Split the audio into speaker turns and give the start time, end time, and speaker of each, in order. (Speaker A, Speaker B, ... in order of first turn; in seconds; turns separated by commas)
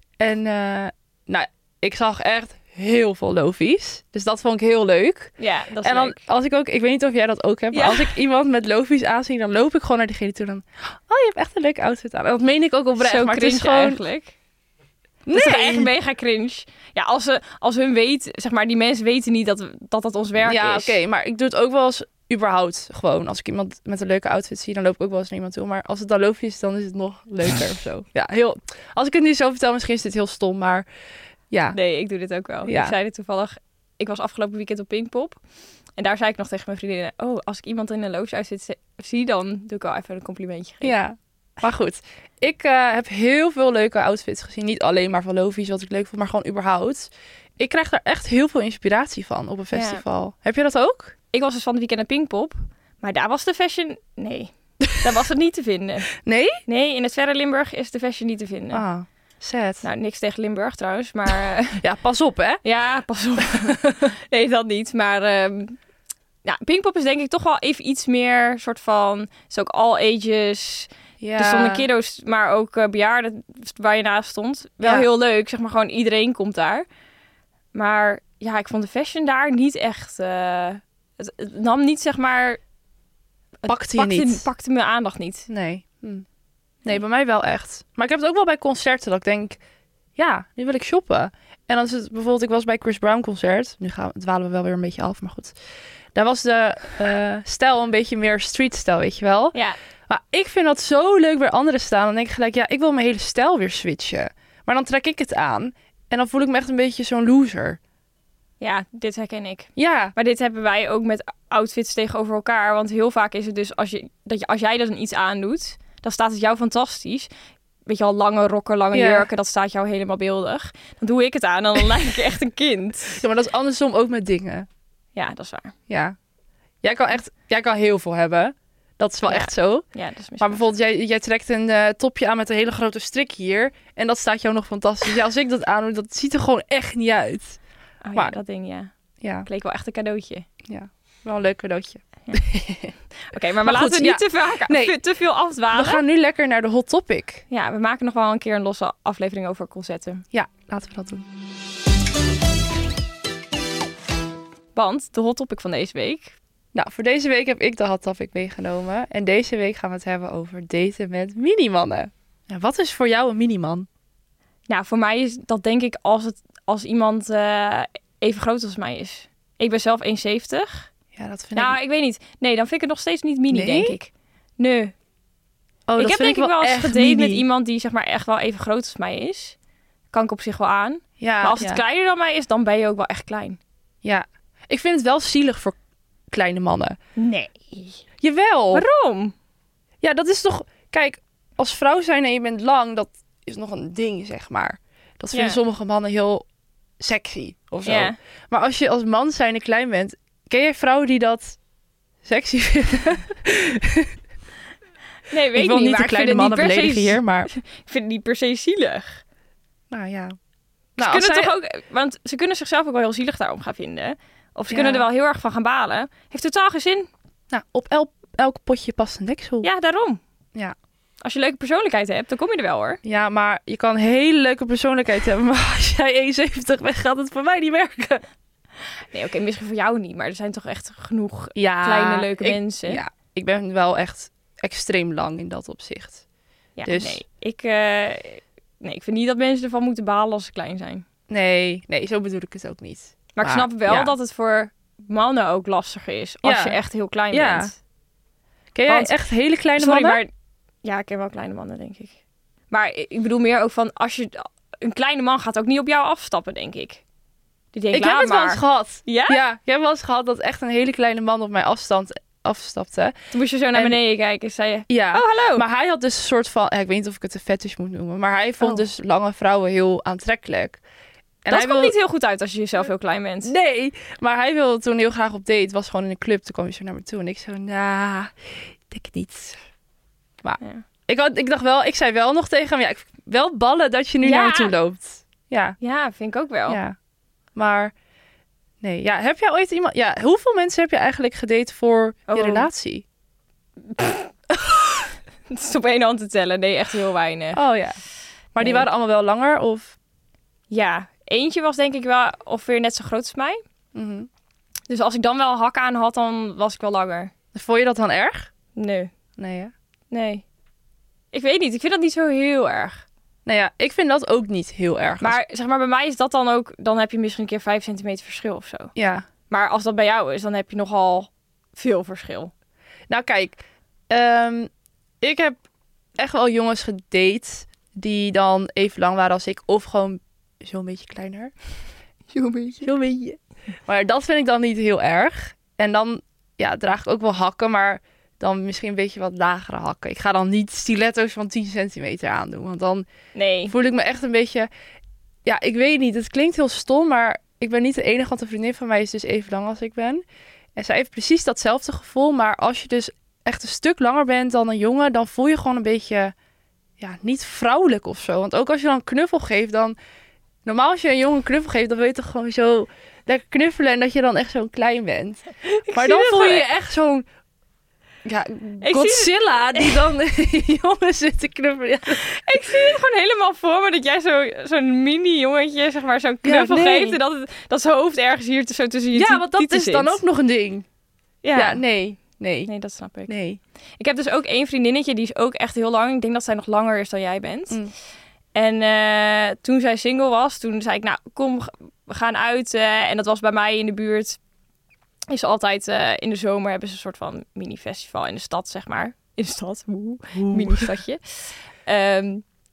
Speaker A: 0.2-14.0, Speaker B: 5.4-6.2, Speaker B: 7.7-8.1, Speaker B: 13.0-14.3, Speaker A: 15.3-15.9, Speaker B: 15.3-21.0, Speaker A: 20.4-30.9, Speaker A: 31.5-31.8, Speaker B: 31.7-35.4, Speaker A: 32.7-33.0, Speaker B: 36.0-41.0, Speaker A: 40.8-51.1, Speaker B: 49.7-50.0, Speaker B: 51.3-56.1, Speaker A: 56.2-56.6, Speaker B: 56.7-58.8, Speaker A: 58.7-59.8, Speaker B: 59.8-61.8, Speaker A: 61.8-62.6, Speaker B: 62.6-65.8, Speaker A: 63.6-64.1, Speaker B: 66.5-76.9, Speaker A: 71.2-71.9, Speaker A: 74.8-75.1, Speaker B: 77.7-82.6, Speaker B: 83.6-85.5, Speaker A: 83.7-84.5, Speaker A: 85.5-86.2, Speaker A: 86.8-89.6, Speaker A: 90.2-95.6, Speaker A: 96.1-99.6, Speaker A: 100.1-107.8, Speaker B: 108.6-117.3, Speaker A: 109.8-110.1, Speaker B: 117.9-123.2, Speaker A: 118.9-119.3, Speaker A: 123.1-124.7, Speaker B: 125.2-125.8, Speaker A: 125.9-126.2, Speaker A: 126.8-129.9, Speaker B: 129.3-130.7, Speaker A: 130.4-137.6, Speaker B: 138.0-138.9, Speaker A: 139.2-139.5, Speaker B: 139.4-140.5, Speaker A: 140.7-142.9, Speaker B: 143.2-146.0, Speaker A: 143.6-145.0, Speaker A: 145.7-147.4, Speaker B: 147.5-150.2, Speaker A: 150.3-151.3, Speaker B: 154.8-156.3, Speaker A: 156.7-163.9, Speaker B: 164.7-170.9, Speaker A: 171.1-171.8, Speaker B: 171.6-174.9, Speaker A: 173.5-173.9, Speaker A: 175.9-177.4, Speaker B: 176.0-179.6, Speaker B: 180.1-183.6, Speaker A: 181.2-181.8, Speaker A: 184.0-185.8, Speaker A: 186.3-187.0, Speaker B: 187.2-188.0, Speaker A: 188.2-188.9, Speaker B: 188.7-189.3, Speaker A: 190.0-196.4, Speaker B: 195.3-195.6, Speaker A: 197.0-201.6, Speaker B: 197.8-198.2, Speaker A: 202.2-204.2, Speaker B: 205.3-209.2, Speaker A: 205.5-207.5, Speaker A: 209.9-210.3, Speaker A: 211.0-211.5, Speaker B: 211.0-217.1, Speaker A: 214.7-215.1, Speaker A: 217.5-219.7, Speaker B: 219.6-220.2, Speaker B: 221.2-223.0, Speaker A: 223.0-228.2, Speaker B: 229.1-233.0, Speaker A: 231.6-236.2, Speaker B: 236.8-241.1, Speaker A: 236.9-237.2, Speaker A: 241.3-244.1, Speaker B: 243.3-247.8, Speaker A: 246.4-246.8, Speaker A: 247.3-247.7, Speaker A: 248.8-250.2, Speaker B: 248.9-249.1, Speaker B: 249.8-250.3, Speaker B: 250.8-252.2, Speaker B: 252.7-257.0, Speaker B: 257.7-259.4, Speaker A: 257.9-263.1, Speaker B: 263.3-265.6, Speaker A: 264.9-270.8, Speaker A: 271.4-271.9, Speaker B: 271.5-273.5, Speaker A: 273.4-278.3, Speaker A: 278.9-279.6, Speaker A: 280.4-285.8, Speaker B: 284.2-284.7, Speaker B: 285.8-286.8, Speaker A: 286.7-287.0, Speaker A: 287.6-287.9, Speaker A: 288.8-293.1, Speaker B: 292.3-292.7, Speaker B: 294.0-294.3, Speaker A: 294.6-294.8, Speaker B: 295.5-297.6, Speaker A: 297.5-298.0, Speaker A: 298.6-300.0, Speaker B: 298.6-298.9, Speaker B: 300.7-303.6, Speaker A: 303.9-304.3, Speaker B: 304.9-307.3, Speaker A: 307.5-308.5, Speaker B: 308.8-309.1, Speaker A: 309.4-309.7, Speaker B: 310.1-310.4, Speaker B: 311.3-313.1, Speaker A: 313.5-315.4, Speaker B: 315.2-318.9, Speaker A: 318.9-319.2, Speaker B: 319.5-322.5, Speaker A: 323.1-324.7, Speaker A: 325.2-325.6, Speaker A: 326.2-331.5, Speaker B: 332.3-332.9, Speaker A: 332.8-343.1, Speaker B: 343.4-343.7, Speaker A: 343.7-344.7, Speaker A: 345.4-350.2, Speaker A: 350.8-356.4, Speaker A: 357.0-360.0, Speaker A: 360.6-367.3, Speaker B: 365.6-366.7, Speaker A: 368.2-372.2, Speaker B: 368.8-370.0, Speaker B: 372.1-380.2, Speaker A: 376.4-377.2, Speaker A: 379.1-380.9, Speaker B: 381.4-381.8, Speaker A: 381.6-382.7, Speaker B: 382.7-383.3, Speaker A: 383.3-383.6, Speaker B: 384.0-387.8, Speaker B: 388.6-394.4, Speaker B: 395.3-402.4, Speaker A: 400.4-400.9